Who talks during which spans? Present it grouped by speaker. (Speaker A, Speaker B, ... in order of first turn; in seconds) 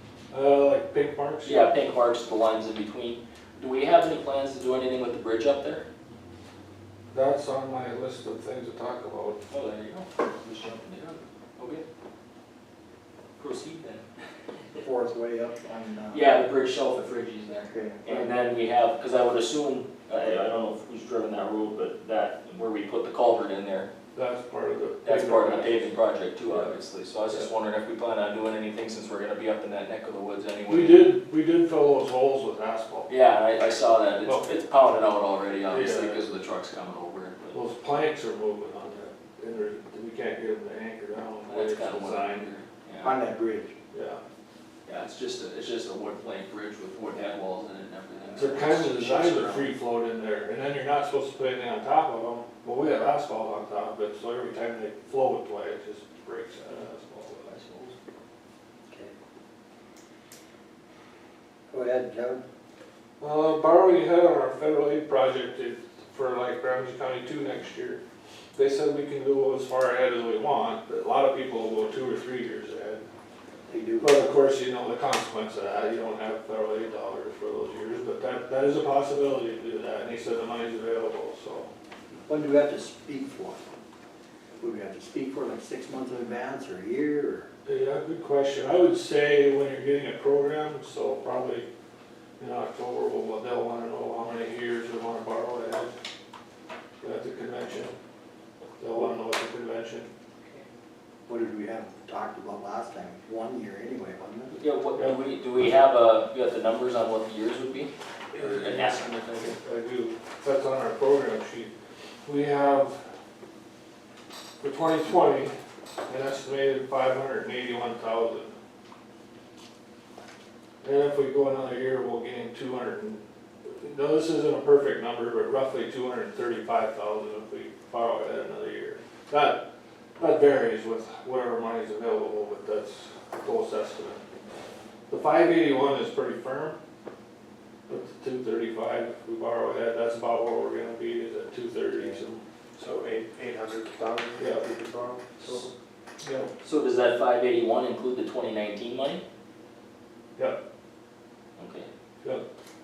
Speaker A: 0.3-1.7, 7.1-9.4, 24.1-25.9, 26.5-26.7, 30.7-33.1, 35.7-36.2, 37.5-42.5, 43.9-44.2, 48.4-57.6, 63.2-68.0, 68.5-73.0, 74.0-81.7, 87.7-91.7, 92.4-95.9, 97.0-98.0, 98.8-100.1, 105.0-105.2, 108.3-111.7, 112.3-113.0, 114.6-115.5, 116.1-118.5, 120.8-129.6, 130.2-134.2, 135.1-136.8, 137.9-142.4, 144.4-144.7, 146.2-146.5
Speaker B: 1.4-5.9, 9.5-11.8, 13.4-14.1, 16.1-23.9, 25.1-31.1, 33.1-37.6, 41.5-43.2, 44.9-49.7, 57.5-57.9, 104.6-109.5, 146.6-149.2, 151.6-151.9
Speaker C: 14.8-16.3, 17.7-18.4, 43.0-43.7, 58.9-59.1, 61.7-62.4, 73.7-74.2, 82.3-83.6, 84.6-87.5, 101.3-104.6
Speaker D: 142.8-145.7